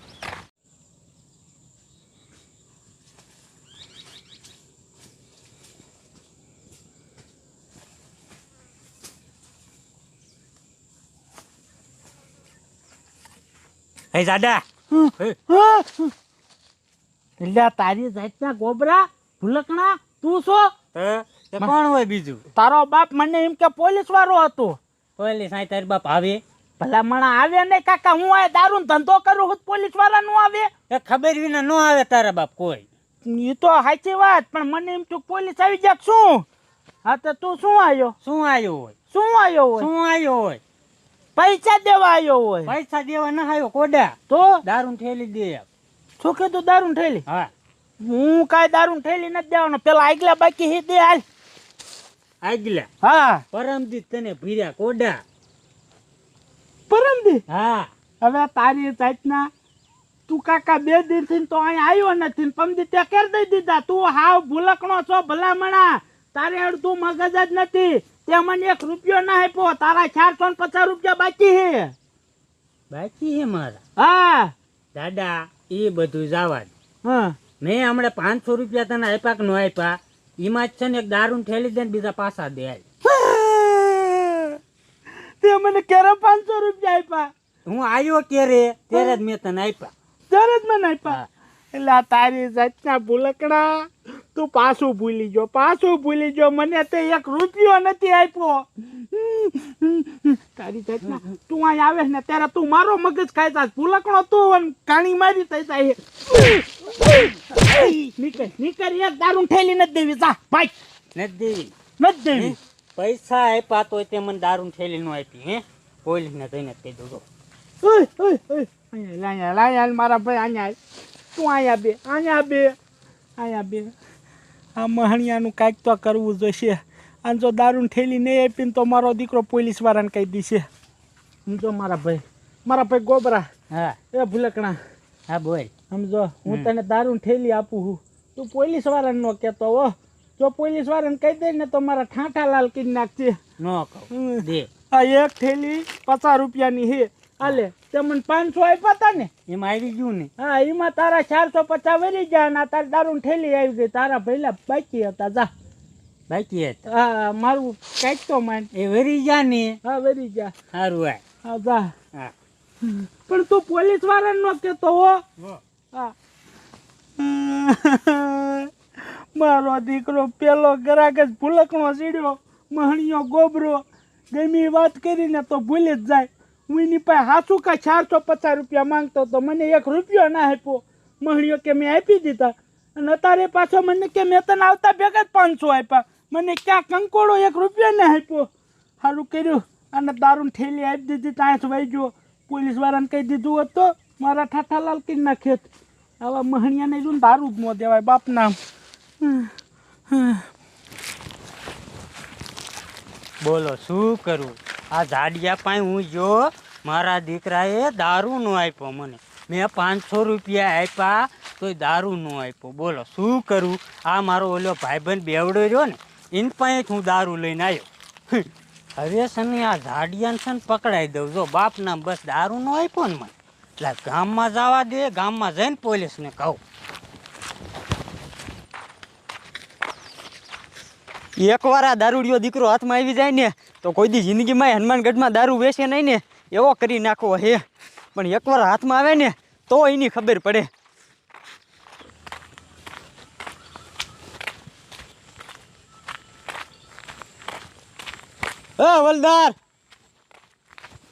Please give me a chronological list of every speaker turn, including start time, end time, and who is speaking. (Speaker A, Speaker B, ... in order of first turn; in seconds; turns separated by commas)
Speaker A: 14.1-14.6, Speaker B: 14.9-16.1, Speaker B: 17.4-20.7, Speaker A: 20.9-22.4, Speaker B: 22.5-24.8, Speaker A: 25.2-26.4, Speaker B: 26.8-30.7, Speaker A: 30.9-32.9, Speaker B: 33.2-36.5, Speaker B: 37.0-38.1, Speaker A: 38.2-38.9, Speaker B: 39.1-39.9, Speaker A: 39.8-40.6, Speaker B: 41.4-42.7, Speaker A: 42.6-45.6, Speaker B: 44.3-44.6, Speaker B: 46.2-47.2, Speaker A: 47.2-47.5, Speaker B: 48.0-51.2, Speaker A: 52.4-52.9, Speaker B: 53.0-53.4, Speaker A: 53.5-55.2, Speaker B: 56.9-57.4, Speaker A: 57.5-57.9, Speaker B: 58.2-59.5, Speaker B: 60.3-71.9, Speaker A: 72.9-73.8, Speaker B: 74.0-74.5, Speaker A: 74.9-76.7, Speaker B: 77.0-77.3, Speaker A: 77.6-82.8, Speaker B: 83.0-84.5, Speaker B: 85.4-87.3, Speaker A: 87.7-89.9, Speaker B: 88.9-89.2, Speaker B: 90.3-91.2, Speaker B: 91.7-110.7, Speaker A: 111.1-111.7, Speaker B: 112.0-112.5, Speaker A: 112.3-117.2, Speaker B: 117.8-120.8, Speaker B: 121.3-122.7, Speaker B: 123.4-123.9, Speaker B: 124.8-130.7, Speaker B: 131.5-133.5, Speaker A: 133.7-134.0, Speaker B: 134.1-134.8, Speaker A: 135.3-135.7, Speaker B: 135.9-143.4, Speaker A: 143.6-144.7, Speaker B: 144.3-149.3, Speaker A: 149.4-150.3, Speaker B: 150.4-155.5, Speaker A: 156.3-156.8, Speaker B: 156.9-158.7, Speaker A: 158.7-159.8, Speaker B: 159.8-160.5, Speaker A: 160.7-161.2, Speaker B: 161.4-161.9, Speaker B: 162.8-165.2, Speaker B: 167.2-168.7, Speaker B: 169.3-188.5, Speaker B: 189.0-195.7, Speaker B: 196.2-198.6, Speaker B: 199.2-199.5, Speaker B: 200.1-200.4, Speaker A: 203.4-226.6, Speaker C: 231.4-237.6, Speaker C: 238.1-240.7, Speaker C: 248.8-249.6